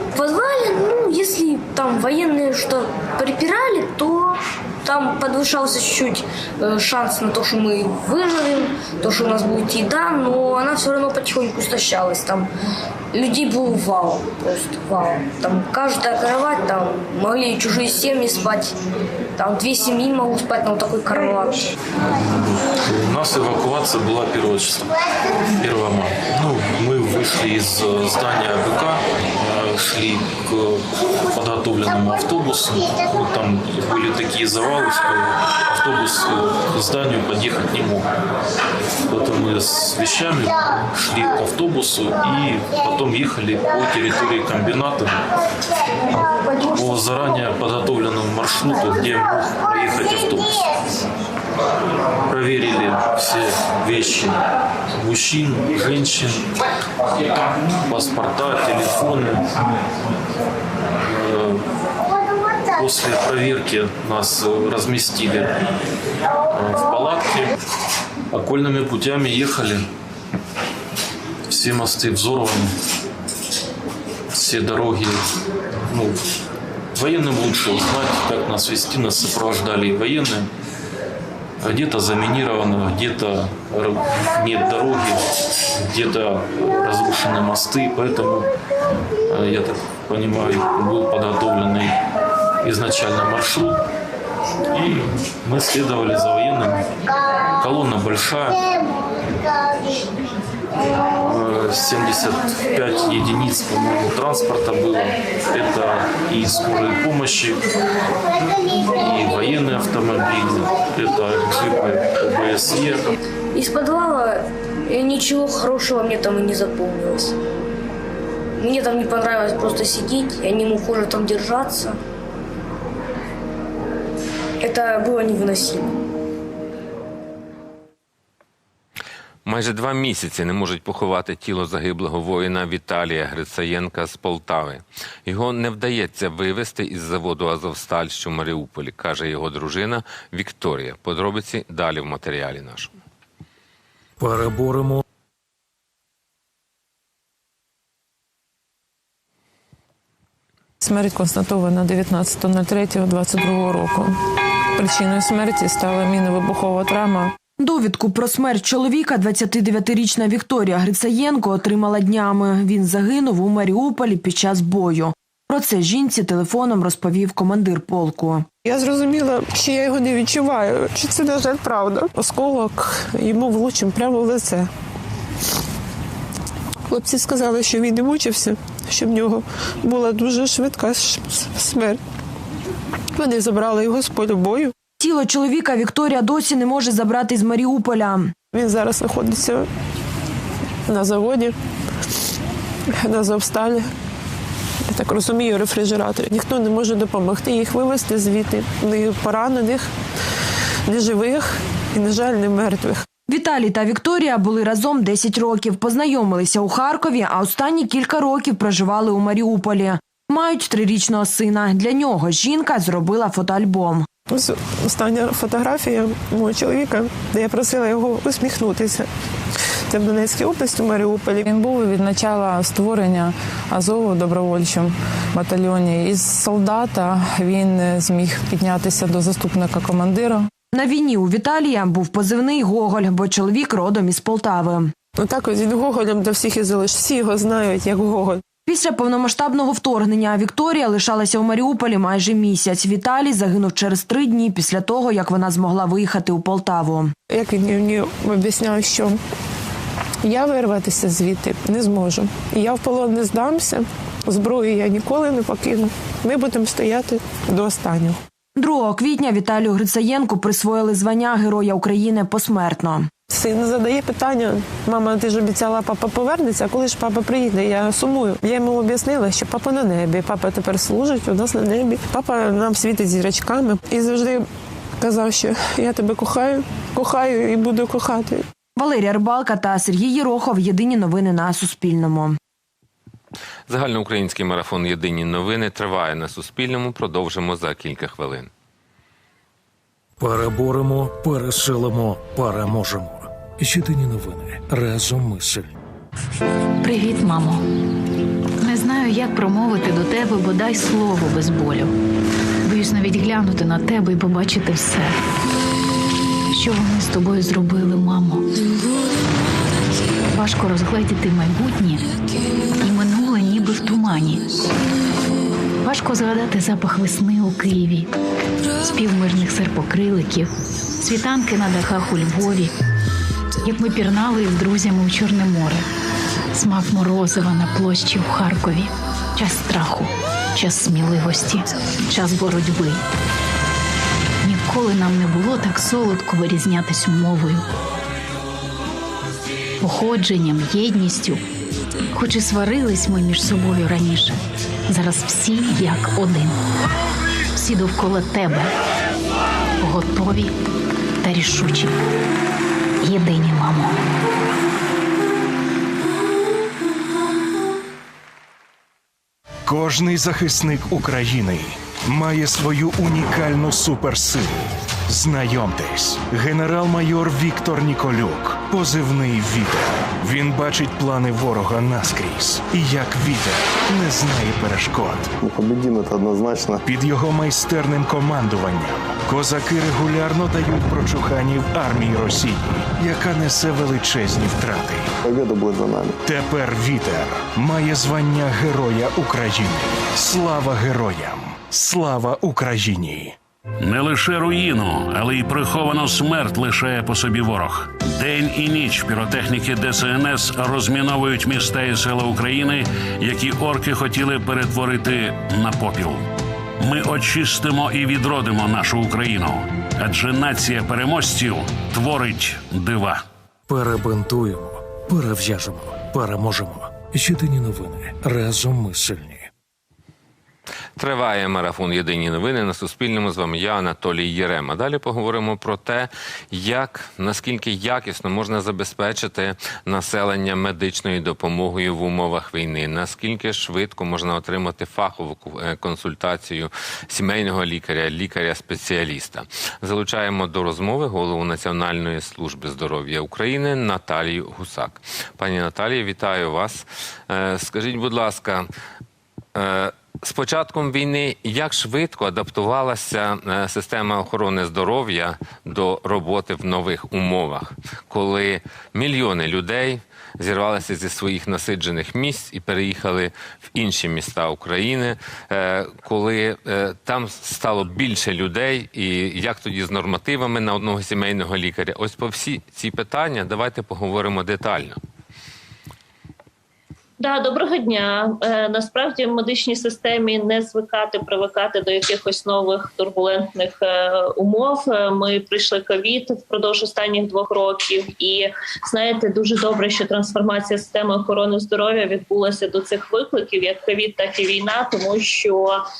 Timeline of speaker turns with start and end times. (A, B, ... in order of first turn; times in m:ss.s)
0:00.2-0:12.5 A
0:13.1-0:18.7 A
0:19.4-0:21.7 A
0:22.0-0:24.9 B
0:25.6-0:38.1 B
0:39.1-0:45.2 B
0:46.7-0:50.8 B
0:52.3-0:54.4 B
0:55.0-0:56.5 B
0:57.4-0:59.5 B
1:01.0-1:01.7 B
1:02.7-1:05.6 B
1:06.5-1:07.6 B
1:08.3-1:09.9 B
1:11.5-1:12.7 B
1:14.3-1:15.2 B
1:15.9-1:16.2 B
1:17.0-1:20.5 B
1:21.6-1:25.2 B
1:25.8-1:28.5 B
1:29.3-1:32.0 B
1:32.6-1:33.8 B
1:34.7-1:36.9 B
1:37.6-1:38.7 B
1:41.1-1:47.7 B
1:48.8-1:53.2 B
1:53.5-1:57.4 A
1:58.6-2:02.0 A
2:04.6-2:05.9 A
2:09.4-2:22.9 C
2:24.2-2:25.0 D
2:30.8-2:34.2 E
2:34.8-2:37.3 E
2:37.6-2:48.5 F
2:48.6-2:54.7 E
2:56.9-3:02.0 E
3:03.2-3:04.7 E
3:05.0-3:08.3 F
3:08.5-3:09.7 E
3:10.9-3:11.6 E
3:12.9-3:13.9 E
3:14.9-3:19.9 E
3:20.9-3:23.0 E
3:23.3-3:34.1 F
3:34.3-3:39.1 E
3:39.9-3:41.4 E
3:41.4-3:50.5 G
3:50.7-3:54.9 F
3:55.2-3:58.4 E
3:58.7-4:07.1 F
4:07.3-4:09.2 E
4:10.2-4:18.2 E
4:18.6-4:23.1 F
4:23.3-4:34.5 E
4:35.0-4:38.5 E
4:38.8-4:42.4 F
4:43.7-4:48.5 C
4:50.2-4:55.7 D
4:56.8-4:57.6 H
4:58.6-5:01.9 H
5:02.6-5:05.1 H
5:06.5-5:08.4 H
5:10.3-5:12.1 H
5:12.8-5:14.5 H
5:15.8-5:18.1 H
5:18.8-5:22.7 H
5:23.6-5:25.9 H
5:26.5-5:33.0 H
5:34.4-5:37.6 H
5:39.8-5:41.4 H
5:42.1-5:46.6 H
5:47.5-5:48.7 H
5:49.8-5:50.5 H
5:51.2-5:52.0 H
5:53.0-5:54.0 H
5:59.7-6:15.3 I
6:15.4-6:16.8 J
6:16.8-6:25.1 I
6:25.2-6:26.2 J
6:26.2-6:33.4 I
6:33.8-6:46.3 K
6:46.8-6:53.2 K
6:53.7-6:59.5 D
7:01.0-7:28.7 C
7:29.6-7:55.0 C
7:57.2-8:15.8 L